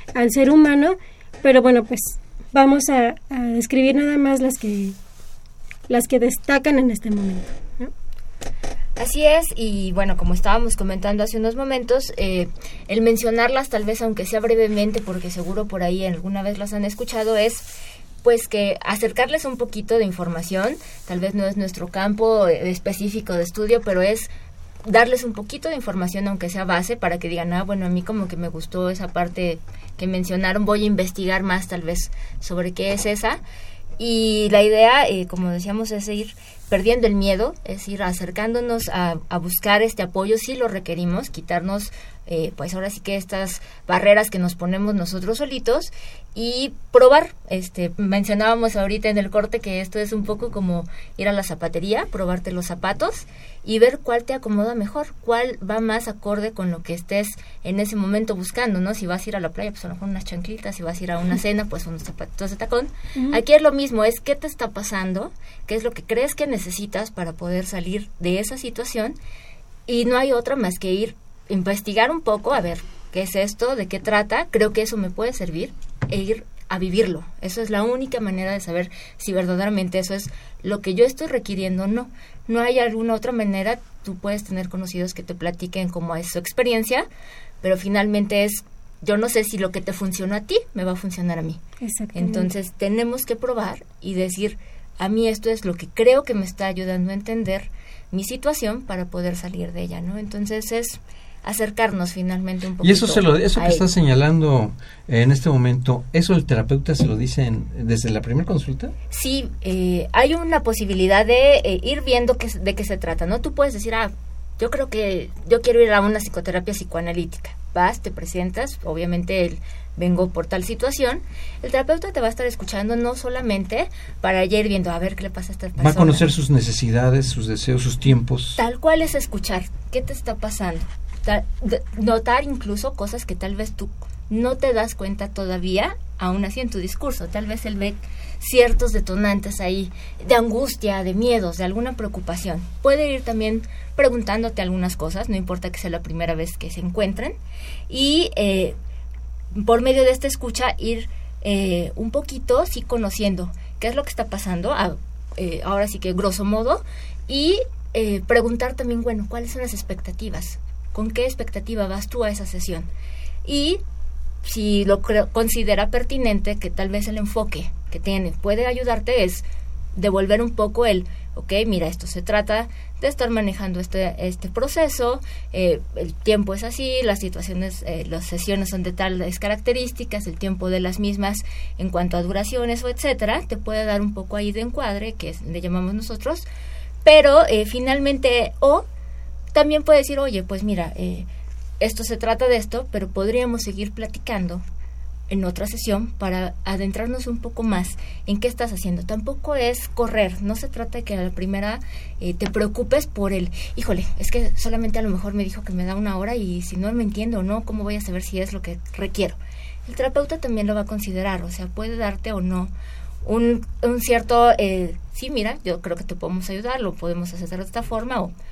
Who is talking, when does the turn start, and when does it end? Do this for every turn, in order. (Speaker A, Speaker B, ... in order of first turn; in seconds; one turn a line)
Speaker A: 0.1-5.0
Speaker A: 5.9-7.9
Speaker B: 9.0-24.3
Speaker B: 24.9-33.4
Speaker B: 34.0-69.2
Speaker A: 63.2-63.4
Speaker B: 69.9-87.1
Speaker B: 87.6-91.6
Speaker A: 91.8-92.5
Speaker B: 92.1-103.9
Speaker C: 102.8-109.0
Speaker B: 109.1-126.3
Speaker C: 125.8-128.6
Speaker B: 128.6-147.4
Speaker B: 147.9-148.8
Speaker B: 149.5-162.9
Speaker B: 163.4-163.8
Speaker B: 164.4-169.4
Speaker B: 170.0-186.4
Speaker B: 187.0-188.9
Speaker B: 189.5-191.3
Speaker B: 191.8-194.6
Speaker B: 195.3-212.7
Speaker B: 213.2-218.3